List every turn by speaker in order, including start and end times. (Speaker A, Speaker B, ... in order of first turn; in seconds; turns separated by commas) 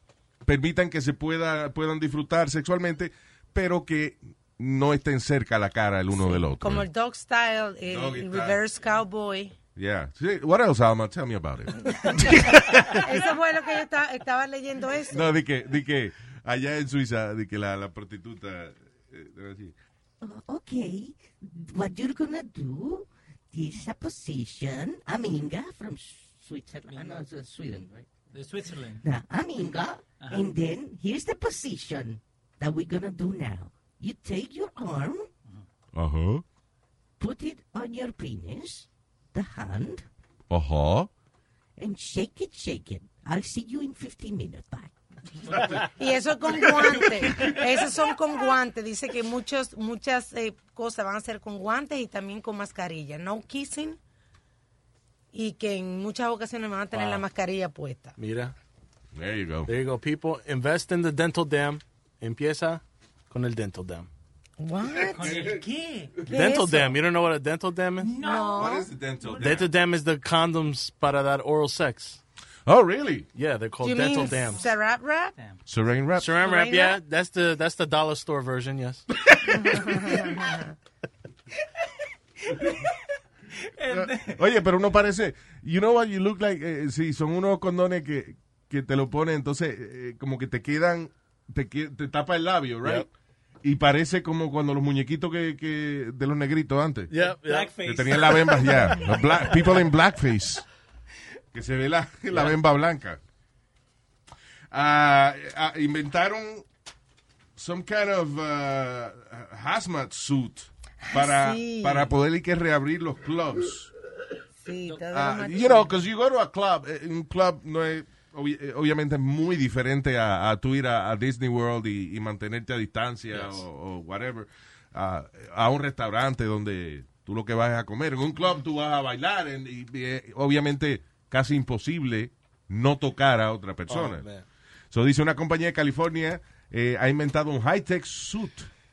Speaker A: 0.4-6.8, Speaker B: 6.2-9.5, Speaker A: 7.9-8.6, Speaker A: 9.8-13.2, Speaker B: 12.0-12.4, Speaker B: 12.9-15.3, Speaker A: 15.1-19.7, Speaker C: 20.2-28.2, Speaker D: 28.3-29.0, Speaker C: 28.7-35.3, Speaker D: 30.2-30.5, Speaker A: 35.9-36.4, Speaker C: 37.2-40.0, Speaker A: 40.5-41.1, Speaker C: 41.8-44.9, Speaker D: 45.5-45.8, Speaker B: 45.9-54.0, Speaker B: 55.3-58.1, Speaker E: 56.9-57.2, Speaker E: 58.2-58.5, Speaker A: 59.1-59.7, Speaker E: 59.7-64.1, Speaker B: 64.6-65.3, Speaker A: 64.9-65.6, Speaker D: 65.1-66.1, Speaker B: 66.3-67.0, Speaker E: 66.3-68.2, Speaker D: 68.0-69.6, Speaker B: 68.2-68.9, Speaker A: 68.5-69.7, Speaker E: 69.4-72.2, Speaker A: 72.7-73.3, Speaker E: 73.3-74.6, Speaker B: 73.8-75.3, Speaker A: 75.7-76.4, Speaker E: 76.2-79.0, Speaker B: 76.3-77.0, Speaker A: 79.2-80.0, Speaker B: 79.5-80.7, Speaker D: 82.5-83.0, Speaker D: 83.5-84.4, Speaker A: 83.9-93.1, Speaker A: 93.6-97.2, Speaker E: 97.1-97.8, Speaker D: 97.4-99.7, Speaker A: 97.8-100.6, Speaker A: 101.5-103.2, Speaker E: 102.3-102.6, Speaker A: 104.7-106.6, Speaker A: 107.6-113.9, Speaker B: 111.0-112.1, Speaker B: 114.6-116.0, Speaker A: 115.1-134.3, Speaker E: 123.3-123.6, Speaker E: 133.9-134.4, Speaker A: 134.9-138.7